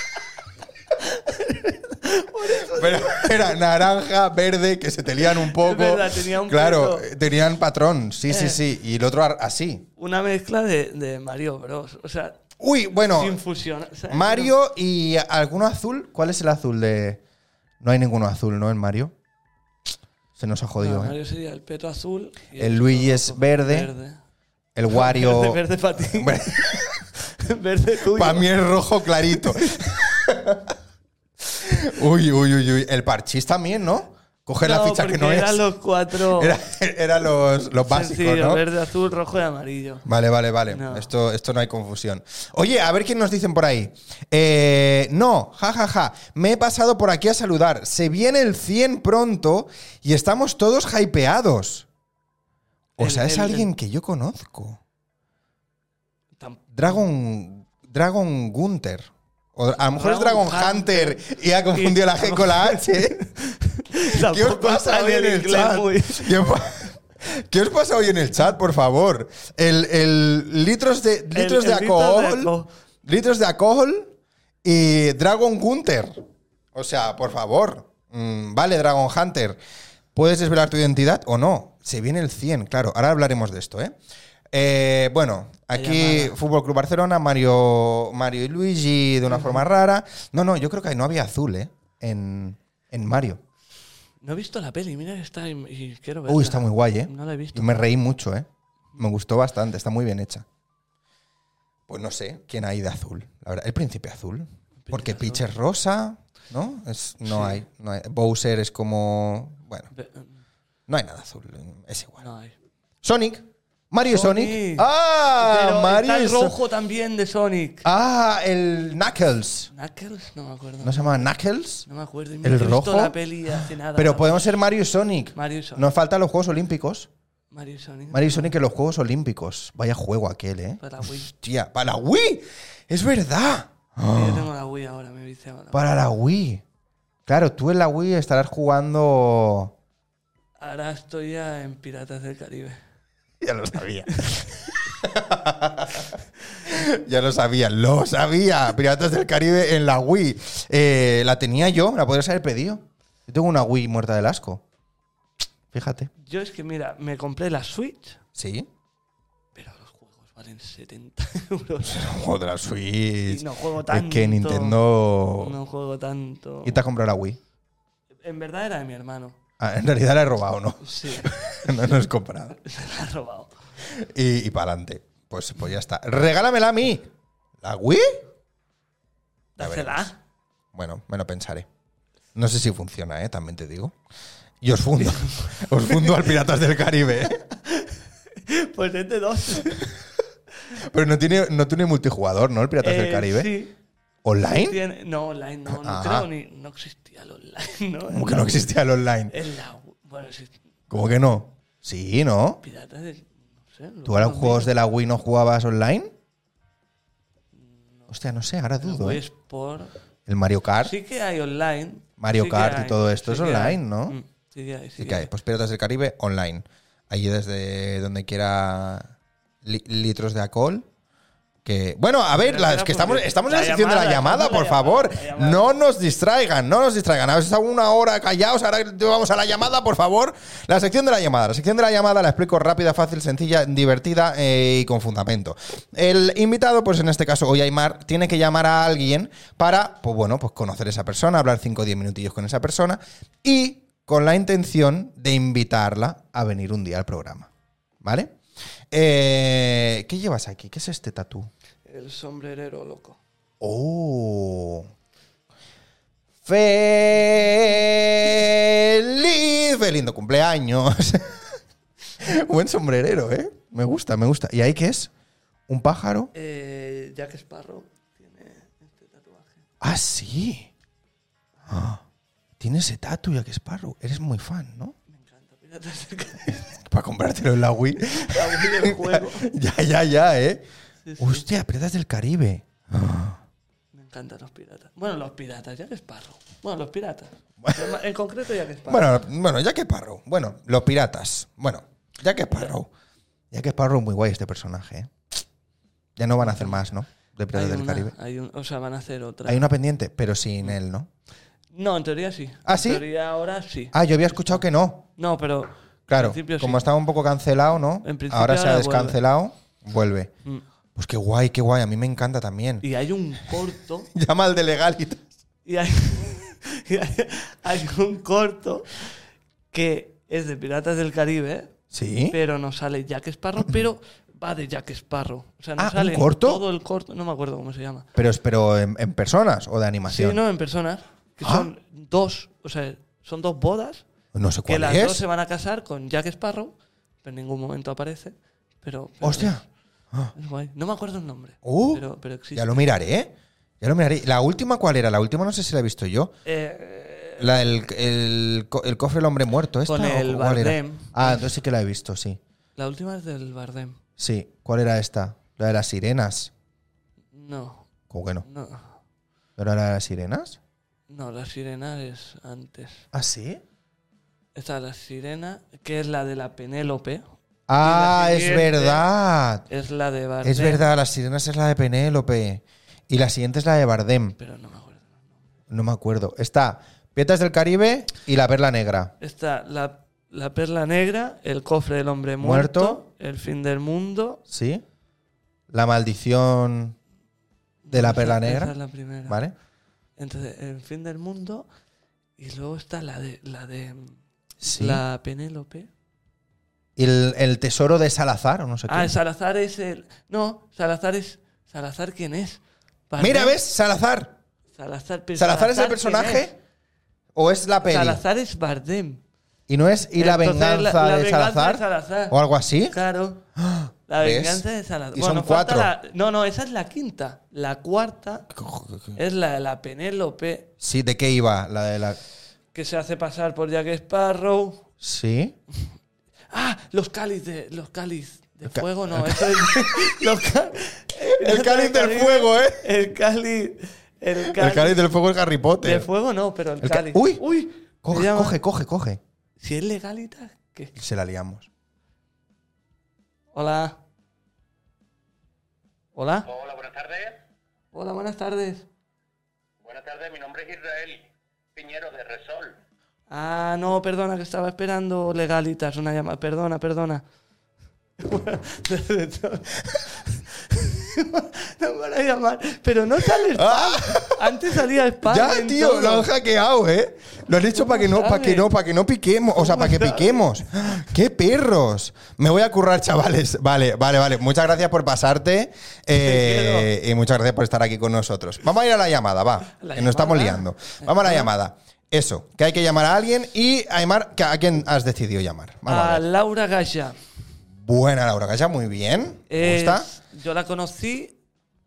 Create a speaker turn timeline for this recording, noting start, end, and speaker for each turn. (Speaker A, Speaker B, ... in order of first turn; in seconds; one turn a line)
Speaker A: 0.9-3.6
Speaker B: 2.6-9.9
Speaker A: 5.2-7.1
Speaker A: 8.3-8.6
Speaker A: 10.0-12.4
Speaker B: 12.6-13.4
Speaker A: 13.1-14.5
Speaker B: 14.1-17.2
Speaker B: 17.8-19.1
Speaker B: 20.4-21.1
Speaker A: 20.8-24.2
Speaker B: 22.6-23.9
Speaker B: 24.7-27.1
Speaker A: 24.9-28.5
Speaker B: 28.1-30.7
Speaker A: 29.3-29.9
Speaker B: 31.6-35.6
Speaker A: 34.6-36.6
Speaker B: 36.3-38.6
Speaker A: 37.8-40.0
Speaker B: 40.0-51.9
Speaker A: 40.7-41.1
Speaker B: 53.0-54.8
Speaker A: 53.0-53.7
Speaker A: 56.4-57.0
Speaker B: 56.7-63.2
Speaker A: 59.9-66.4
Speaker B: 64.1-72.5
Speaker A: 71.3-72.7
Speaker B: 73.0-76.2
Speaker B: 76.7-79.6
Speaker B: 80.1-83.9
Speaker B: 84.5-93.4
Speaker A: 85.7-86.4
Speaker A: 89.3-89.6
Speaker A: 94.2-97.8
Speaker B: 96.3-100.4
Speaker B: 101.9-109.9
Speaker A: 104.8-105.4
Speaker A: 107.3-107.6
Speaker A: 109.9-110.4
Speaker B: 110.9-112.2
Speaker A: 112.2-112.5
Speaker B: 113.0-116.5
Speaker A: 114.0-117.9
Speaker B: 117.8-119.7
Speaker A: 119.7-121.3
Speaker B: 120.8-121.9
Speaker A: 121.9-124.6
Speaker B: 122.4-127.1
Speaker A: 125.3-125.9
Speaker A: 127.5-128.5
Speaker B: 128.1-134.5
Speaker A: 130.8-131.3
Speaker A: 134.1-135.9
Speaker B: 135.7-136.6
Speaker B: 137.3-139.7
Speaker A: 140.6-142.8
Speaker B: 143.4-154.6
Speaker A: 144.1-144.4
Speaker B: 155.7-156.1
Speaker A: 156.2-158.2
Speaker B: 158.3-158.7
Speaker A: 159.6-162.1
Speaker B: 161.9-165.6
Speaker A: 163.3-164.8
Speaker A: 165.4-166.8
Speaker B: 166.6-167.4
Speaker A: 168.2-169.4
Speaker B: 169.6-172.6
Speaker A: 170.8-171.7
Speaker A: 172.6-173.6
Speaker B: 173.9-177.1
Speaker B: 177.6-178.2
Speaker A: 179.6-180.2
Speaker B: 179.6-180.1
Speaker B: 180.7-181.7
Speaker B: 182.3-183.9
Speaker B: 184.6-187.4
Speaker A: 185.0-186.3
Speaker A: 187.2-189.8
Speaker B: 190.8-193.5
Speaker A: 192.8-193.7
Speaker B: 194.2-194.8
Speaker A: 194.4-198.6
Speaker B: 195.7-196.3
Speaker B: 198.1-199.3
Speaker A: 199.3-200.6
Speaker B: 200.9-202.6
Speaker A: 202.6-204.7
Speaker B: 204.1-206.1
Speaker A: 207.5-208.1
Speaker B: 208.1-209.2
Speaker A: 208.8-209.9
Speaker B: 210.3-210.9
Speaker A: 210.8-215.3
Speaker B: 212.2-214.2
Speaker B: 215.0-220.9
Speaker B: 221.6-247.5
Speaker A: 222.4-225.8
Speaker B: 248.0-248.4
Speaker B: 248.9-251.5
Speaker A: 251.8-253.2
Speaker B: 253.6-254.9
Speaker B: 256.4-261.4
Speaker B: 262.2-265.1
Speaker B: 265.7-266.3
Speaker A: 266.3-269.6
Speaker B: 269.8-270.7
Speaker B: 271.7-272.0
Speaker B: 272.6-274.9
Speaker A: 275.1-276.7
Speaker B: 276.7-280.6
Speaker A: 278.1-279.5
Speaker A: 281.1-281.4
Speaker B: 281.2-283.4
Speaker A: 283.9-289.1
Speaker B: 287.6-287.9
Speaker B: 288.9-292.9
Speaker B: 293.5-295.1
Speaker B: 296.2-298.1
Speaker A: 296.4-296.8
Speaker A: 297.5-299.7
Speaker B: 299.4-301.1
Speaker A: 301.7-304.6
Speaker B: 302.6-303.1
Speaker B: 303.9-305.1
Speaker A: 305.2-306.8
Speaker B: 306.1-310.3
Speaker A: 308.0-309.2
Speaker B: 310.9-312.9
Speaker A: 312.8-314.1
Speaker B: 314.1-315.2
Speaker A: 315.6-319.1
Speaker A: 319.7-321.7
Speaker B: 321.9-322.4
Speaker A: 322.3-328.1
Speaker B: 325.8-326.6
Speaker B: 328.1-330.4
Speaker A: 330.1-334.1
Speaker B: 331.4-331.7
Speaker B: 334.3-335.2
Speaker A: 334.7-339.6
Speaker B: 339.2-340.3
Speaker A: 340.3-342.9
Speaker B: 341.6-346.3
Speaker A: 346.4-347.5
Speaker B: 347.4-352.4
Speaker A: 349.9-351.5
Speaker A: 352.8-354.0
Speaker B: 354.2-356.5
Speaker A: 357.3-357.9
Speaker B: 358.1-358.4
Speaker A: 358.4-358.9
Speaker B: 359.6-360.6
Speaker A: 361.1-363.1
Speaker B: 363.1-363.6
Speaker A: 364.6-367.3
Speaker B: 367.7-369.6
Speaker A: 367.8-369.1
Speaker A: 369.7-370.8
Speaker B: 370.4-374.4
Speaker A: 374.4-375.3
Speaker B: 375.7-379.1
Speaker A: 379.2-384.4
Speaker B: 382.4-383.0
Speaker B: 384.5-384.8
Speaker B: 385.7-387.0
Speaker A: 387.8-389.4
Speaker B: 387.9-388.7
Speaker B: 389.3-389.5
Speaker A: 390.2-391.7
Speaker A: 392.4-395.9
Speaker B: 394.6-395.0
Speaker B: 396.9-399.1
Speaker A: 398.9-403.6
Speaker B: 403.2-404.4
Speaker A: 404.7-406.5
Speaker B: 405.4-406.6
Speaker B: 407.3-408.2
Speaker A: 407.8-409.2
Speaker B: 409.7-413.0
Speaker A: 410.1-412.4
Speaker A: 412.9-413.4
Speaker B: 413.6-415.9
Speaker A: 414.1-418.5
Speaker B: 418.5-419.2
Speaker A: 419.1-420.7
Speaker B: 420.8-422.2
Speaker A: 422.7-424.8
Speaker B: 425.0-425.6
Speaker A: 426.5-435.1
Speaker B: 428.7-429.6
Speaker B: 431.3-432.8
Speaker B: 434.4-436.1
Speaker A: 435.8-438.6
Speaker B: 436.8-437.4
Speaker B: 438.0-439.2
Speaker A: 439.6-440.9
Speaker B: 440.9-441.7
Speaker A: 443.5-444.0
Speaker A: 446.1-446.5
Speaker C: 446.4-447.4
Speaker A: 447.9-448.9
Speaker C: 449.8-452.8
Speaker A: 453.3-457.2
Speaker A: 458.2-466.3
Speaker B: 463.5-486.2
Speaker A: 467.7-468.7
Speaker A: 469.5-470.6
Speaker A: 476.1-476.9
Speaker A: 479.8-481.5
Speaker A: 485.9-487.2
Speaker B: 487.8-490.1
Speaker A: 489.5-491.4